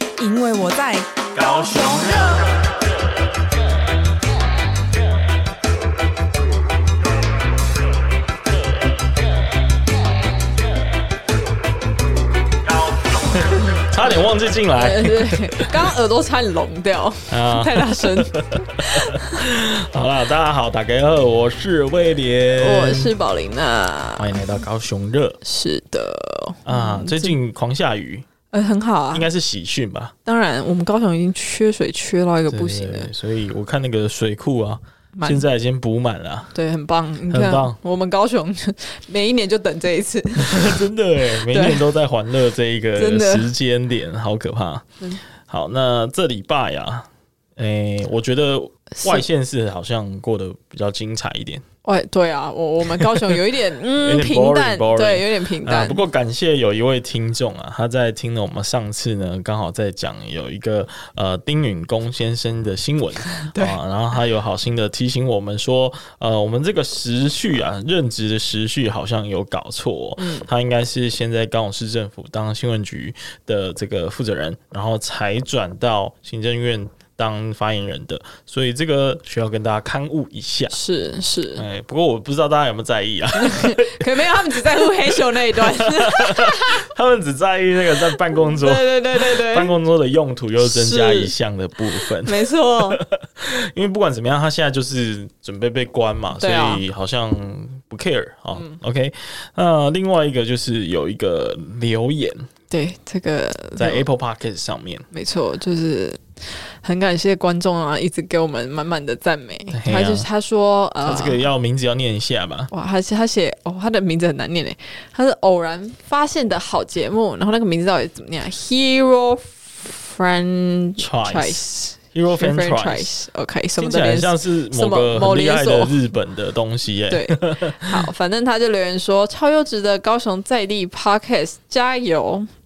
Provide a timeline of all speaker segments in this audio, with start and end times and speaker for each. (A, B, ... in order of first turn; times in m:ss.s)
0:00.2-0:02.1 A
0:01.4-0:02.5 B
0:13.0-0:15.8 B
0:14.8-0:19.4 C
0:17.3-0:23.1 B
0:22.6-0:24.4 C
0:24.2-0:25.4 B
0:25.4-0:27.4 C
0:26.7-0:28.3 B
0:28.5-0:29.3 C
0:29.1-0:30.1 B
0:30.3-0:33.1 C
0:32.5-0:36.5 B
0:35.2-0:35.4 C
0:36.5-0:40.8 C
0:37.3-0:37.8 B
0:40.4-0:44.9 B
0:41.5-0:41.8 C
0:43.0-0:43.5 C
0:45.5-0:51.6 B
0:48.9-0:49.2 C
0:51.8-0:56.0 C
0:52.8-0:53.4 B
0:54.0-1:20.8 B
1:03.3-1:03.8 C
1:10.2-1:10.5 C
1:20.7-1:21.6 C
1:21.6-1:42.5 B
1:23.4-1:26.8 C
1:28.4-1:29.7 C
1:30.6-1:31.3 C
1:32.0-1:33.0 C
1:36.4-1:36.8 C
1:38.6-1:38.8 C
1:42.7-1:44.0 C
1:43.8-1:45.1 B
1:45.1-1:51.4 C
1:49.7-1:50.3 B
1:51.0-1:52.7 B
1:52.7-2:06.0 C
2:01.0-2:03.1 B
2:03.8-2:08.0 B
2:07.1-2:12.5 C